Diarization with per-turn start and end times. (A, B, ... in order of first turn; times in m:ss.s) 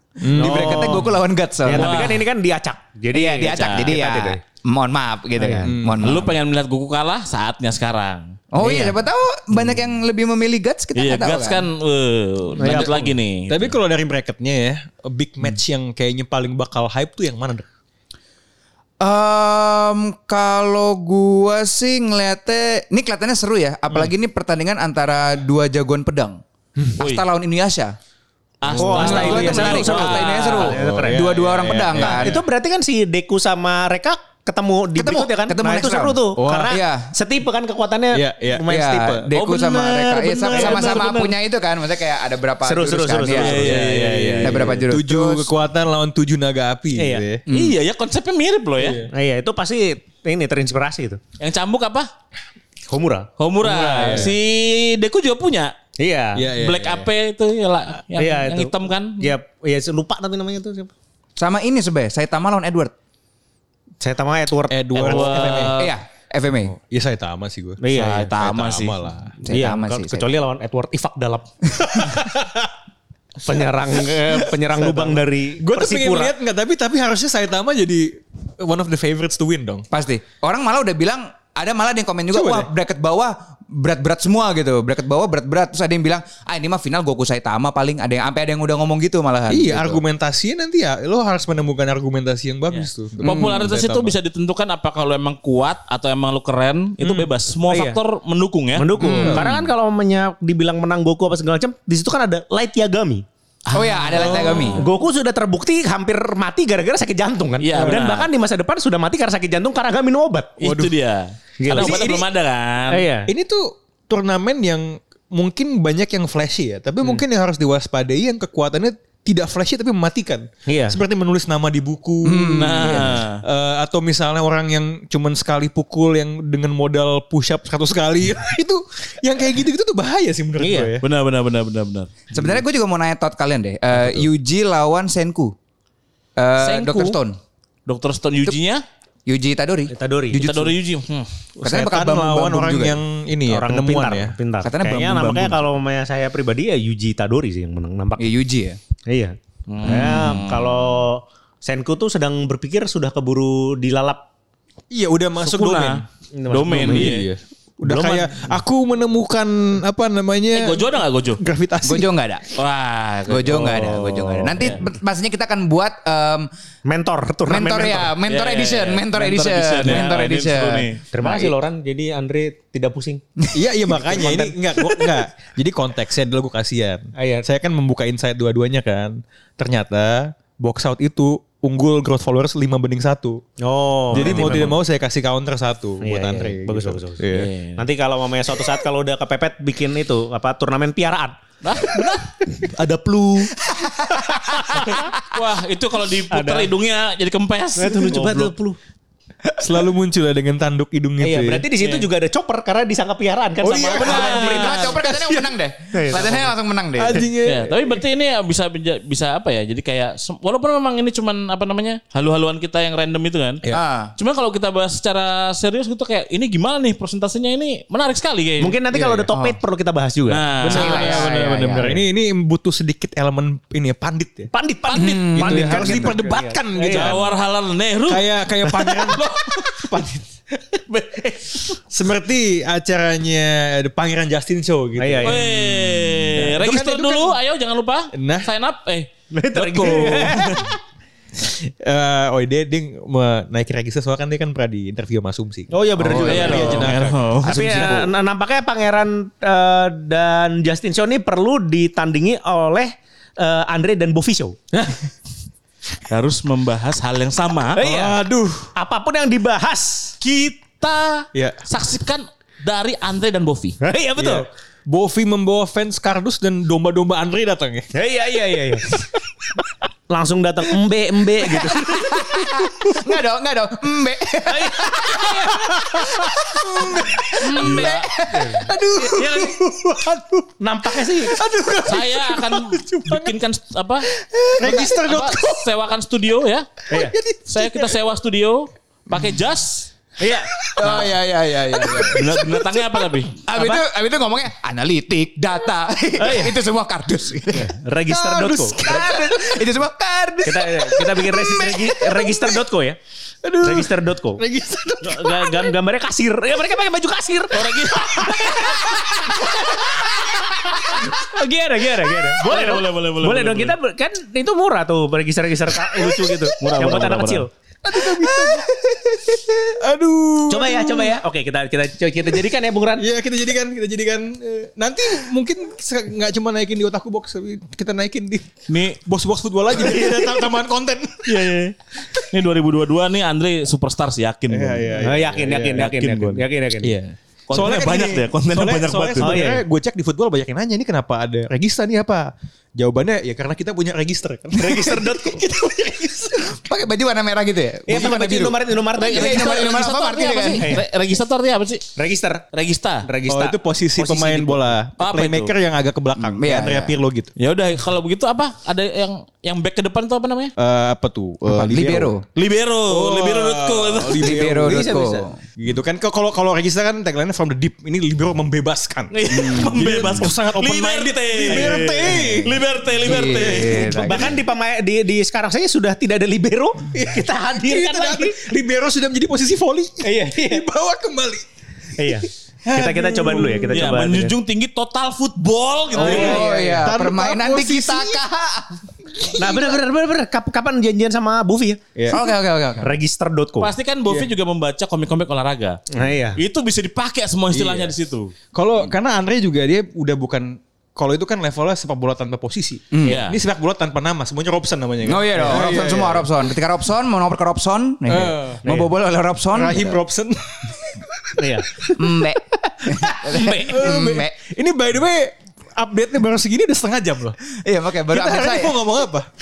0:00.2-0:01.1 A
0:00.3-0:02.2 B
0:00.4-0:01.1 C
0:01.6-0:04.4 C
0:01.7-0:02.2 D
0:03.1-0:06.4 B
0:03.5-0:03.9 D
0:05.4-0:05.7 C
0:05.6-0:06.2 A
0:06.0-0:08.9 D
0:08.5-0:11.6 B
0:10.9-0:13.8 D
0:12.6-0:13.2 C
0:12.6-0:17.7 A
0:19.0-0:26.4 B
0:27.0-0:27.9 B
0:27.0-0:27.3 D
0:28.6-0:30.8 D
0:28.7-0:29.8 A
0:28.7-0:31.4 C
0:28.8-0:32.4 B
0:30.6-0:32.4 A
0:31.9-0:39.3 C
0:34.9-0:37.1 B
0:36.4-0:36.8 A
0:38.1-0:38.6 A
0:38.7-0:43.8 B
0:39.3-0:41.3 D
0:40.5-0:41.1 C
0:42.6-0:44.8 C
0:43.2-0:44.7 D
0:43.7-0:47.4 A
0:44.4-0:45.5 B
0:47.0-0:47.2 C
0:47.5-0:47.8 B
0:47.5-0:49.0 D
0:48.8-0:49.1 A
0:49.1-0:51.2 C
0:51.4-0:52.1 D
0:52.9-0:53.3 C
0:53.4-0:55.7 D
0:53.6-0:54.3 A
0:56.0-0:56.4 C
0:56.3-0:57.1 A
0:56.6-0:59.4 D
0:58.2-1:00.9 C
1:01.4-1:02.9 B
1:04.0-1:05.4 C
1:04.7-1:05.8 A
1:05.0-1:05.9 D
1:05.7-1:06.7 B
1:06.6-1:09.4 A
1:07.8-1:08.3 C
1:07.9-1:09.0 D
1:09.4-1:10.3 B
1:09.5-1:12.1 C
1:11.8-1:12.7 A
1:13.4-1:16.3 C
1:13.5-1:19.8 A
1:19.9-1:30.0 B
1:22.3-1:22.7 A
1:29.5-1:34.1 A
1:32.7-1:39.7 D
1:33.2-1:33.7 B
1:37.0-1:38.0 C
1:38.8-1:43.2 C
1:39.0-1:39.4 A
1:39.2-1:39.4 B
1:43.7-1:44.9 D
1:43.7-1:44.8 B
1:44.2-1:44.8 A
1:44.5-1:50.6 C
1:47.6-1:48.3 D
1:47.8-1:48.0 A
1:50.6-1:53.1 D
1:50.6-1:50.9 A
1:51.6-1:52.1 C
1:51.7-1:52.2 A
1:52.9-1:53.3 C
1:53.3-2:11.0 A
2:00.6-2:01.0 C
2:02.2-2:03.2 B
2:02.4-2:03.4 D
2:10.6-2:10.9 C
2:11.0-2:12.1 D
2:12.3-2:15.5 B
2:12.3-2:12.6 A
2:13.9-2:14.2 A
2:16.4-2:17.4 B
2:16.6-2:17.2 D
2:17.9-2:18.8 D
2:19.3-2:20.8 B
2:19.9-2:20.4 C
2:20.4-2:21.3 D
2:21.6-2:24.4 A
2:21.6-2:23.0 B
2:23.5-2:28.3 C
2:24.6-2:25.6 B
2:28.2-2:28.8 B
2:29.1-2:34.2 C
2:29.7-2:31.0 D
2:34.9-2:36.0 A
2:35.4-2:37.3 D
2:36.3-2:37.1 C
2:36.7-2:40.8 A
2:37.8-2:38.6 C
2:40.5-2:41.4 D
2:41.4-2:42.1 A
2:41.8-2:42.5 B
2:42.5-2:44.8 D
2:43.3-2:46.5 B
2:46.8-2:48.2 C
2:47.5-2:51.5 B
2:48.2-2:51.0 D
2:51.1-2:53.2 C
2:53.5-3:03.4 A
2:54.0-2:54.5 C
2:57.2-2:57.4 C
3:03.6-3:04.8 C
3:04.1-3:07.5 A
3:04.1-3:04.7 D
3:06.0-3:11.4 C
3:07.3-3:07.8 D
3:11.6-3:12.3 D
3:12.4-3:13.5 C
3:13.6-3:14.7 B
3:14.3-3:15.0 C
3:14.7-3:18.5 D
3:16.3-3:16.7 C
3:17.8-3:18.8 C
3:19.6-3:21.6 A
3:21.2-3:25.3 C
3:21.8-3:22.1 D
3:23.6-3:25.1 A
3:23.9-3:25.0 D
3:24.0-3:27.2 B
3:25.9-3:26.5 C
3:27.0-3:28.0 A
3:27.4-3:33.6 D
3:33.7-3:34.1 B
3:34.2-3:38.8 D
3:38.6-3:42.0 C
3:38.9-3:39.2 A
3:40.3-3:41.3 D
3:40.6-3:44.5 A
3:40.7-3:42.0 B
3:44.5-3:47.2 C
3:44.9-3:45.6 D
3:44.9-3:46.2 B
3:45.3-3:47.3 A
3:46.9-3:49.9 D
3:48.1-3:50.2 A
3:50.9-3:51.7 D
3:51.9-3:57.4 A
3:55.0-3:55.4 C
3:55.2-3:59.1 D
3:58.1-3:58.5 A
3:59.3-4:00.8 C
3:59.5-4:00.6 A
3:59.8-4:00.6 D
4:01.4-4:07.4 A
4:05.7-4:14.6 C
4:06.0-4:06.6 B
4:06.2-4:07.9 D
4:07.4-4:08.1 B
4:16.0-4:17.8 D
4:17.7-4:18.2 C
4:17.8-4:18.7 A
4:18.7-4:20.1 C
4:20.2-4:23.8 D
4:21.3-4:21.6 A
4:23.8-4:24.4 C
4:24.2-4:27.9 A
4:27.9-4:28.9 C
4:28.8-4:29.2 A
4:30.1-4:32.1 C
4:31.4-4:33.0 A
4:31.8-4:38.7 B
4:34.5-4:35.7 C
4:35.1-4:37.8 A
4:37.4-4:38.1 D
4:38.3-4:38.7 C
4:38.5-4:43.3 A
4:39.0-4:39.6 D
4:40.6-4:41.4 C
4:41.8-4:44.1 D
4:44.4-4:45.6 A
4:44.6-4:46.8 D
4:47.0-4:47.9 A
4:47.4-4:49.9 D
4:50.2-4:50.5 C
4:50.6-4:51.1 A
4:50.8-4:52.7 B
4:51.7-4:52.2 A
4:52.0-4:53.4 D
4:53.3-4:57.7 B
4:53.5-4:53.8 C
4:56.2-4:56.6 C
4:57.6-4:59.0 C
4:58.1-4:59.2 A
4:58.4-5:02.6 B
5:00.4-5:03.0 C
5:03.4-5:05.7 A
5:03.6-5:04.4 C
5:05.0-5:17.5 C
5:07.5-5:09.0 D
5:12.4-5:13.8 D
5:16.6-5:17.5 D
5:17.8-5:18.6 A
5:18.0-5:18.4 C
5:18.7-5:19.0 B
5:19.8-5:21.2 A
5:20.5-5:23.0 C
5:23.0-5:31.5 A
5:28.7-5:29.0 D
5:29.8-5:30.1 D
5:31.2-5:36.4 D
5:34.5-5:35.8 A
5:35.0-5:36.9 C
5:36.8-5:46.5 A
5:37.5-5:39.4 D
5:39.2-5:39.6 C
5:44.6-5:45.4 C
5:46.5-5:50.8 B
5:47.9-5:49.8 C
5:49.0-5:51.9 D
5:52.0-5:52.4 C
5:52.5-5:53.1 D
5:53.0-5:54.6 C
5:53.3-5:57.3 A
5:55.0-5:55.5 D
5:56.2-5:56.9 B
5:57.4-6:00.5 D
6:00.6-6:02.1 A
6:01.5-6:02.2 B
6:02.3-6:04.3 D
6:02.9-6:05.0 A
6:04.2-6:05.4 B
6:04.5-6:05.3 C
6:05.6-6:12.6 A
6:09.1-6:14.1 D
6:09.3-6:10.1 B
6:11.5-6:12.2 C
6:13.0-6:14.4 B
6:13.5-6:14.2 A
6:13.6-6:18.4 C
6:16.9-6:21.5 A
6:20.0-6:20.6 C
6:22.0-6:24.3 C
6:22.6-6:23.8 A
6:23.7-6:26.4 D
6:25.9-6:26.8 C
6:25.9-6:28.2 A
6:26.0-6:29.6 B
6:29.2-6:29.7 A
6:29.4-6:31.8 C
6:32.0-6:32.2 A
6:32.1-6:33.0 B
6:32.8-6:33.7 C
6:33.6-6:35.8 D
6:35.9-6:36.4 C
6:36.4-6:38.3 D
6:37.5-6:37.9 A
6:38.5-6:46.3 A
6:42.9-6:43.2 B
6:43.0-6:43.4 D
6:45.0-6:50.0 B
6:48.1-6:48.6 A
6:49.5-6:51.9 A
6:51.4-6:51.9 C
6:51.9-6:54.3 B
6:52.8-6:53.9 C
6:53.7-6:57.4 A
6:57.5-6:58.8 B
6:58.1-6:59.3 A